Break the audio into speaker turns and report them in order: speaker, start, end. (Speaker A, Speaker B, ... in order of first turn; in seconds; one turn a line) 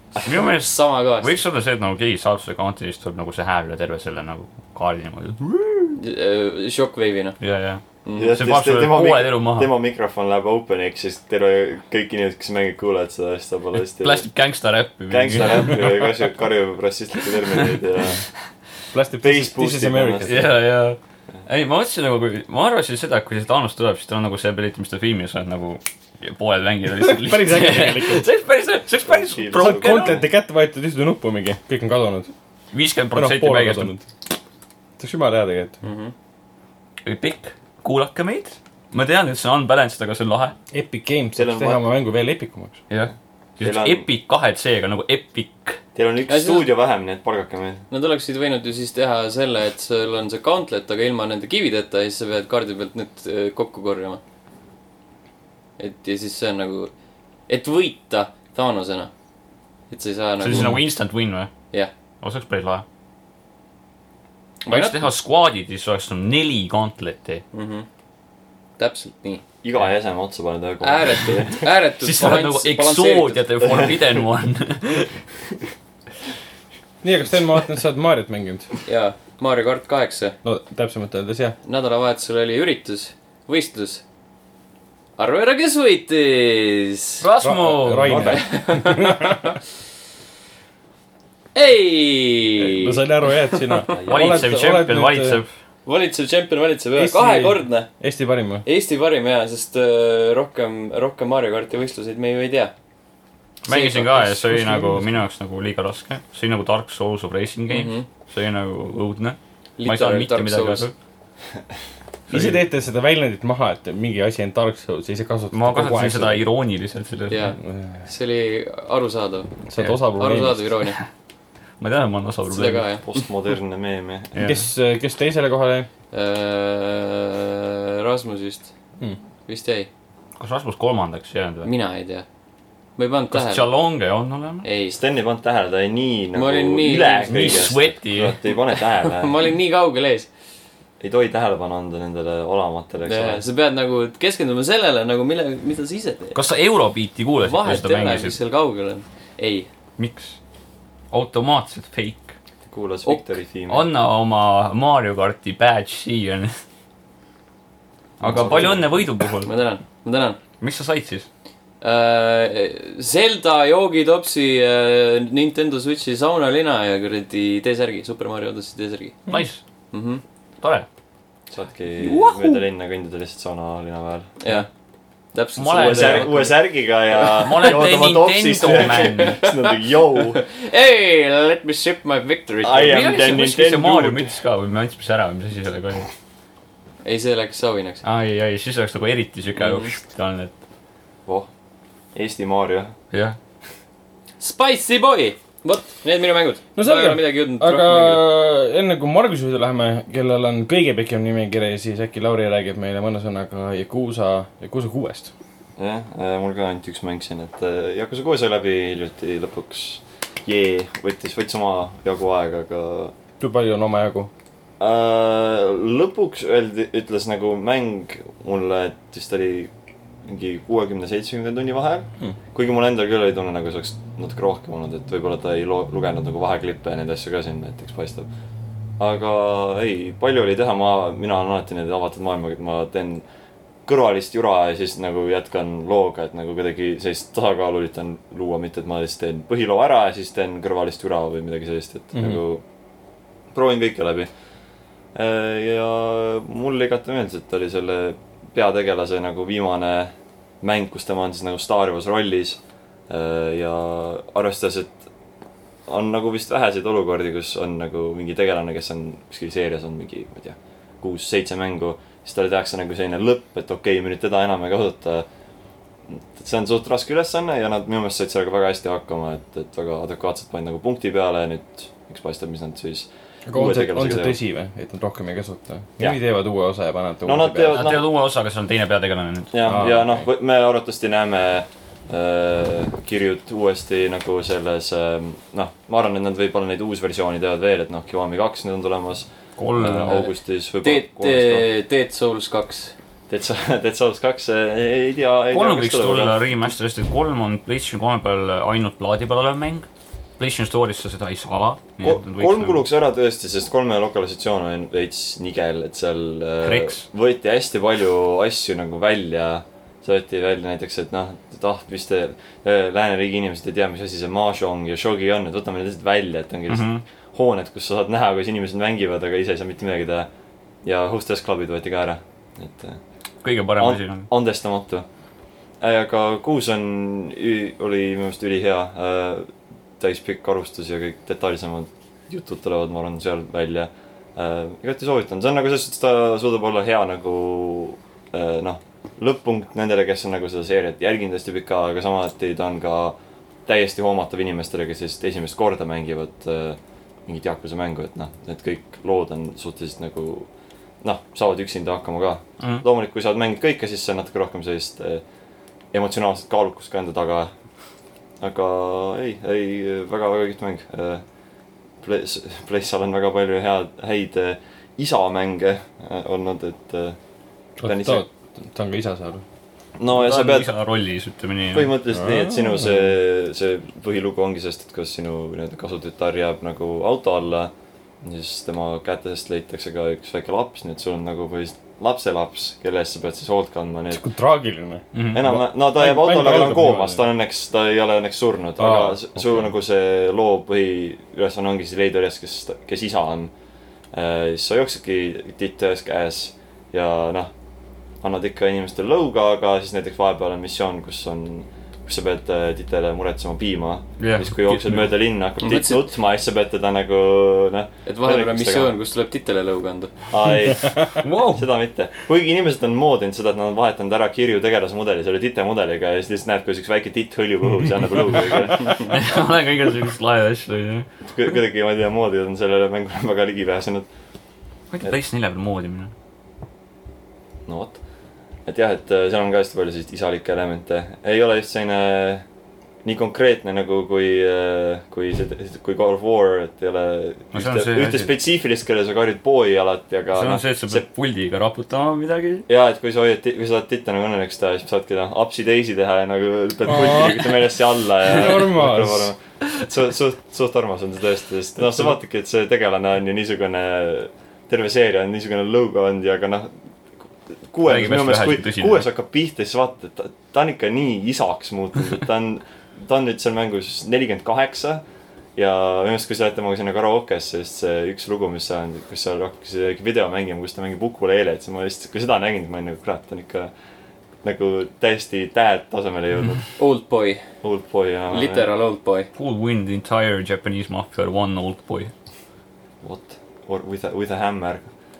Speaker A: 0.2-6.0
Speaker B: 0.6-1.4
Speaker B: 6.0-7.4
Speaker A: 7.4-9.7
Speaker C: 8.2-14.2
Speaker A: 14.0-16.0
Speaker C: 15.1-18.2
Speaker A: 17.5-17.8
Speaker D: 18.9-20.5
Speaker C: 19.2-20.5
Speaker A: 20.2-30.2
Speaker D: 26.9-28.3
Speaker C: 29.1-30.2
Speaker D: 29.6-32.3
Speaker A: 32.7-33.9
Speaker D: 33.1-34.1
Speaker D: 35.0-35.8
Speaker B: 35.8-36.1
Speaker A: 37.0-40.5
Speaker D: 40.7-42.8
Speaker C: 41.4-41.8
Speaker A: 42.9-45.8
Speaker C: 43.6-44.0
Speaker C: 45.9-47.8
Speaker B: 46.3-46.7
Speaker B: 47.9-54.2
Speaker B: 55.8-56.9
Speaker B: 57.5-59.1
Speaker B: 59.9-60.8
Speaker A: 60.4-61.5
Speaker A: 62.2-62.8
Speaker B: 64.6-65.1
Speaker A: 64.7-67.4
Speaker B: 67.5-67.9
Speaker B: 68.8-69.4
Speaker C: 69.6-71.7
Speaker B: 70.8-73.4
Speaker A: 72.0-75.1
Speaker D: 77.0-78.7
Speaker B: 78.8-80.4
Speaker D: 80.4-81.6
Speaker B: 81.6-84.0
Speaker B: 85.2-87.2
Speaker A: 87.2-88.4
Speaker D: 87.4-89.6
Speaker C: 88.1-88.5
Speaker B: 88.2-89.4
Speaker B: 91.5-93.8
Speaker D: 92.6-95.4
Speaker C: 93.9-94.5
Speaker A: 94.0-95.5
Speaker B: 95.8-97.9
Speaker D: 97.0-98.6
Speaker B: 98.6-102.7
Speaker A: 103.6-110.9
Speaker B: 103.7-104.4
Speaker D: 104.4-105.1
Speaker B: 107.7-108.1
Speaker B: 109.8-110.9
Speaker A: 112.3-112.6
Speaker D: 112.3-116.4
Speaker A: 115.5-117.4
Speaker B: 117.3-119.6
Speaker D: 117.6-118.0
Speaker D: 119.7-120.6
Speaker B: 120.1-121.0
Speaker A: 121.8-122.9
Speaker B: 122.5-123.3
Speaker C: 123.0-124.5
Speaker A: 124.3-124.6
Speaker D: 124.4-125.9
Speaker B: 126.1-128.7
Speaker B: 129.5-129.9
Speaker A: 130.4-131.7
Speaker B: 131.6-132.2
Speaker B: 133.0-133.7
Speaker A: 133.3-134.7
Speaker B: 134.6-135.0
Speaker C: 134.9-139.4
Speaker B: 136.3-137.7
Speaker A: 137.3-138.4
Speaker B: 139.0-140.3
Speaker C: 141.0-143.4
Speaker B: 143.0-146.4
Speaker A: 146.3-148.4
Speaker B: 147.4-149.7
Speaker A: 150.0-150.4
Speaker A: 151.1-152.3
Speaker C: 152.7-153.9
Speaker A: 153.7-156.5
Speaker C: 158.2-159.0
Speaker A: 158.2-159.5
Speaker B: 158.3-158.7
Speaker B: 159.4-160.4
Speaker A: 160.6-161.2
Speaker B: 161.8-169.2
Speaker A: 169.3-169.6
Speaker B: 169.9-170.2
Speaker A: 170.6-170.9
Speaker C: 171.5-174.3
Speaker A: 172.0-172.6
Speaker B: 174.4-174.7
Speaker B: 175.3-176.6
Speaker A: 175.6-176.4
Speaker C: 175.7-180.4
Speaker B: 177.1-177.9
Speaker A: 177.3-179.4
Speaker B: 178.6-183.0
Speaker C: 182.6-184.3
Speaker A: 182.8-186.1
Speaker B: 187.0-188.0
Speaker A: 188.0-190.5
Speaker B: 189.6-189.9
Speaker C: 192.1-192.9
Speaker A: 193.1-193.4
Speaker B: 194.4-198.2
Speaker D: 196.8-205.3
Speaker C: 205.8-213.1
Speaker D: 213.4-214.3
Speaker C: 214.8-219.7
Speaker C: 220.2-228.3
Speaker C: 229.0-233.2
Speaker C: 233.8-242.6
Speaker D: 242.1-242.4
Speaker C: 243.5-244.3
Speaker C: 245.1-255.0
Speaker C: 255.9-265.2
Speaker C: 266.1-274.4
Speaker D: 273.5-277.8
Speaker C: 277.2-278.1
Speaker A: 277.7-279.5
Speaker C: 279.5-291.6
Speaker D: 279.7-280.3
Speaker A: 289.6-290.3
Speaker B: 290.8-292.9
Speaker C: 293.3-296.7
Speaker A: 295.5-299.9
Speaker A: 300.4-302.8
Speaker C: 302.0-320.3
Speaker A: 306.6-307.1
Speaker A: 316.7-317.0
Speaker C: 320.8-323.0
Speaker A: 323.4-324.3
Speaker C: 323.8-325.1
Speaker C: 325.8-350.5
Speaker C: 351.0-355.2
Speaker A: 352.6-352.8
Speaker C: 355.9-357.5
Speaker C: 358.4-361.2
Speaker C: 362.0-367.2
Speaker D: 367.8-369.4
Speaker C: 367.8-368.2
Speaker C: 370.0-370.7
Speaker A: 370.1-371.9
Speaker C: 371.7-384.2
Speaker D: 372.1-373.1
Speaker D: 384.1-387.2
Speaker A: 385.1-385.5
Speaker C: 385.3-393.5
Speaker D: 388.8-389.6
Speaker C: 394.1-397.5
Speaker C: 398.2-408.9
Speaker A: 404.2-405.1
Speaker B: 405.6-406.0
Speaker B: 408.1-410.1
Speaker C: 410.3-419.1
Speaker A: 411.2-411.6
Speaker A: 418.8-421.1
Speaker C: 421.3-424.1
Speaker A: 424.9-426.1
Speaker C: 427.6-428.0
Speaker C: 428.6-432.4
Speaker C: 433.0-441.0
Speaker A: 437.5-438.3
Speaker A: 440.3-442.6
Speaker C: 442.7-456.7
Speaker D: 446.8-447.7
Speaker D: 448.2-449.3
Speaker C: 457.7-465.0
Speaker A: 457.8-459.0
Speaker C: 465.6-473.7
Speaker C: 474.4-476.7
Speaker B: 476.8-477.4
Speaker C: 477.6-478.7
Speaker B: 478.3-479.3
Speaker A: 479.3-482.1
Speaker C: 483.0-484.9